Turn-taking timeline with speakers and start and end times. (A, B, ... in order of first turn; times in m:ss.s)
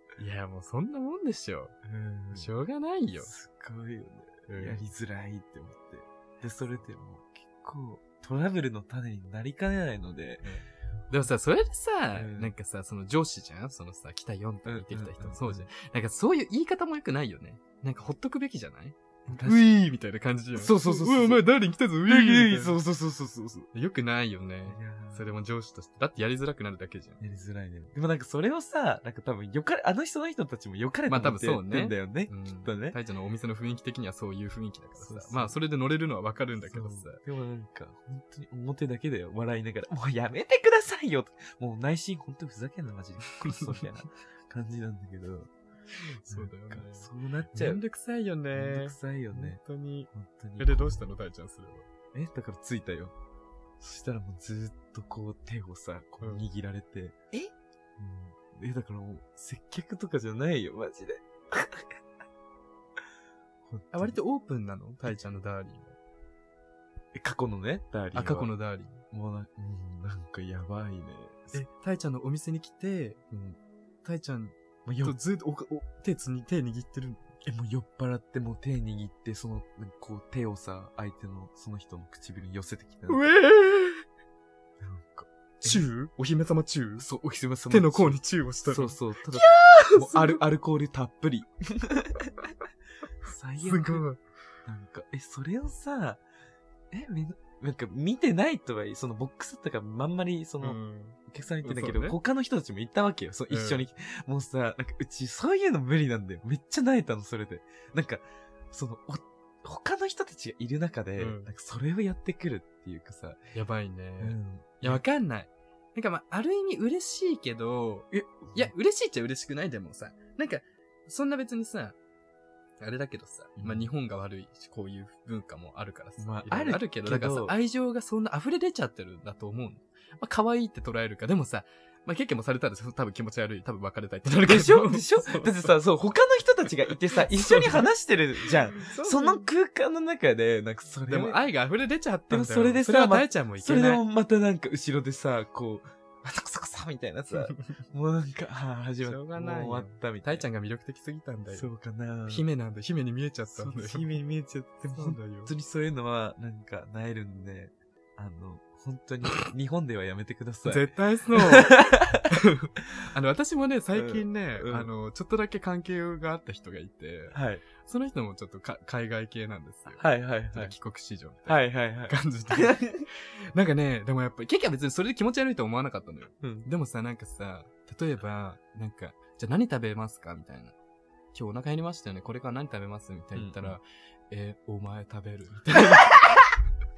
0:00.2-0:01.8 A
0:01.8-0:02.5 B
0:02.3-0:03.3 A
0:03.2-0:10.5 B
0:04.5-0:04.8 A
0:10.4-0:22.8 A
0:12.1-0:12.5 B
0:14.6-0:15.7 B
0:19.3-0:19.6 B
0:20.6-0:21.4 B
0:22.1-0:23.7 B
0:23.7-0:27.2 A
0:24.7-0:25.3 B
0:27.2-0:33.0 B
0:31.1-0:37.2 A
0:35.0-0:35.6 B
0:36.7-0:45.5 B
0:43.4-0:43.8 A
0:46.0-0:51.9 A
0:46.3-0:47.8 B
0:48.5-0:51.1 B
0:52.1-0:53.1 B
0:53.8-0:57.2 B
0:58.0-1:01.9 B
1:03.7-1:04.2 B
1:03.9-1:06.0 A
1:07.2-1:08.5 B
1:08.1-1:09.0 A
1:09.1-1:11.6 B
1:11.5-1:13.2 A
1:13.3-1:13.6 B
1:14.0-1:17.2 A
1:14.9-1:15.2 B
1:17.4-1:23.3 B
1:23.1-1:24.0 A
1:24.8-1:25.8 B
1:25.6-1:27.1 A
1:27.0-1:32.3 B
1:27.7-1:30.4 A
1:33.2-1:34.0 B
1:33.6-1:34.2 A
1:34.7-1:36.2 B
1:36.9-1:53.4 B
1:40.6-1:42.2 A
1:43.5-1:43.9 A
1:51.2-1:51.5 A
1:53.5-2:02.0 A
1:54.2-1:55.0 B
1:58.1-1:58.7 B
2:02.8-2:15.7 A
2:03.6-2:03.9 B
2:06.2-2:07.6 B
2:14.4-2:21.4 B
2:17.2-2:17.8 A
2:18.7-2:19.4 A
2:21.0-2:24.0 A
2:22.3-2:30.4 B
2:29.0-2:31.7 A
2:31.5-2:32.4 B
2:32.3-2:34.2 A
2:33.5-2:42.2 B
2:34.8-2:35.5 A
2:40.6-3:00.8 A
2:43.9-2:44.9 B
2:47.3-2:47.6 B
2:50.0-2:50.8 B
2:51.4-2:53.0 B
2:56.4-2:56.7 B
3:01.3-3:06.3 A
3:03.3-3:03.8 B